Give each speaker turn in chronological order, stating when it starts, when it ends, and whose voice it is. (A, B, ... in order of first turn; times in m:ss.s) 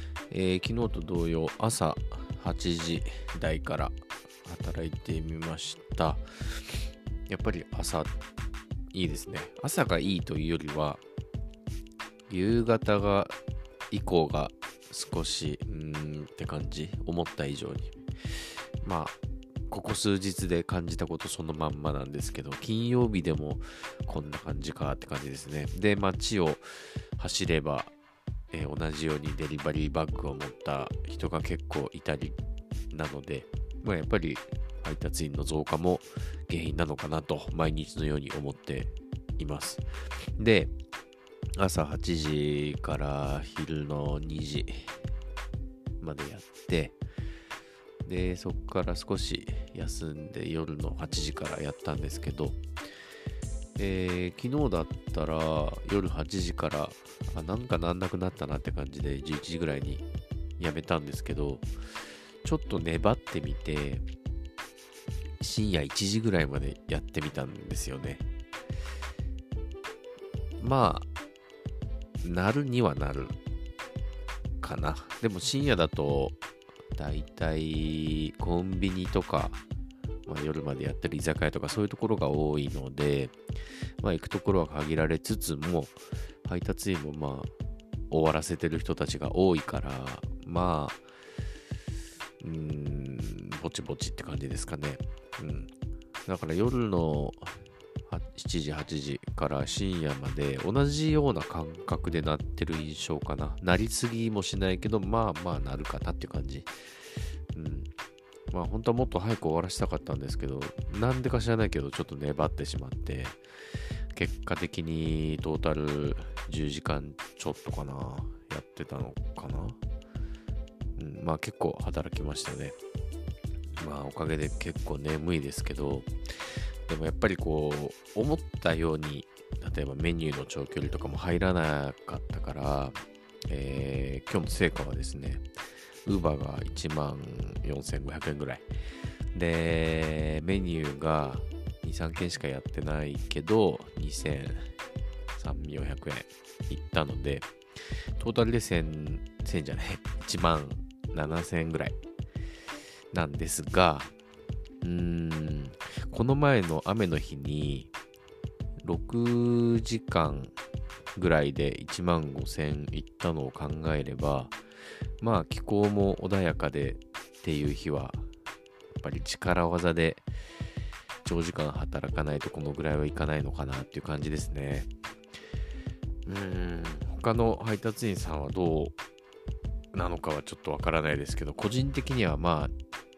0:00.3-0:03.9 A
0:04.4-0:06.7 A
0:07.3-0:08.1 A
0:08.9-0:11.0 A
0:12.3-0:13.3 A
0:13.9-0:18.0 A
0:18.8-0:19.1 A
0:19.7-0:27.9 A
0:28.5-0:32.4 A
0:32.9-0:39.8 A
0:40.4-0:40.7 A
0:41.6-0:44.9 A
0:46.0-0:47.0 A
0:48.0-0:52.6 A
0:53.8-1:00.0 A
1:00.6-1:01.7 A
1:02.4-1:04.0 A
1:05.4-1:08.2 A
1:10.6-1:11.1 A
1:12.2-1:13.4 A
1:14.6-1:16.4 A
1:16.9-1:19.6 A
1:20.2-1:23.4 A
1:24.0-1:27.5 A
1:28.1-1:31.0 A
1:32.4-1:35.7 A
1:36.2-1:37.5 A
1:38.1-1:46.7 A
1:47.5-1:47.9 A
1:48.5-1:53.4 A
1:54.1-1:59.8 A
2:01.0-2:02.8 A
2:03.8-2:13.0 A
2:13.5-2:15.4 A
2:16.0-2:18.6 A
2:19.3-2:24.7 A
2:25.3-2:32.0 A
2:33.1-2:34.1 A
2:34.8-2:37.9 A
2:38.8-2:40.5 A
2:41.1-2:44.5 A
2:45.2-2:48.2 A
2:49.0-2:50.2 A
2:51.2-2:54.9 A
2:56.2-2:58.9 A
2:59.9-3:02.7 A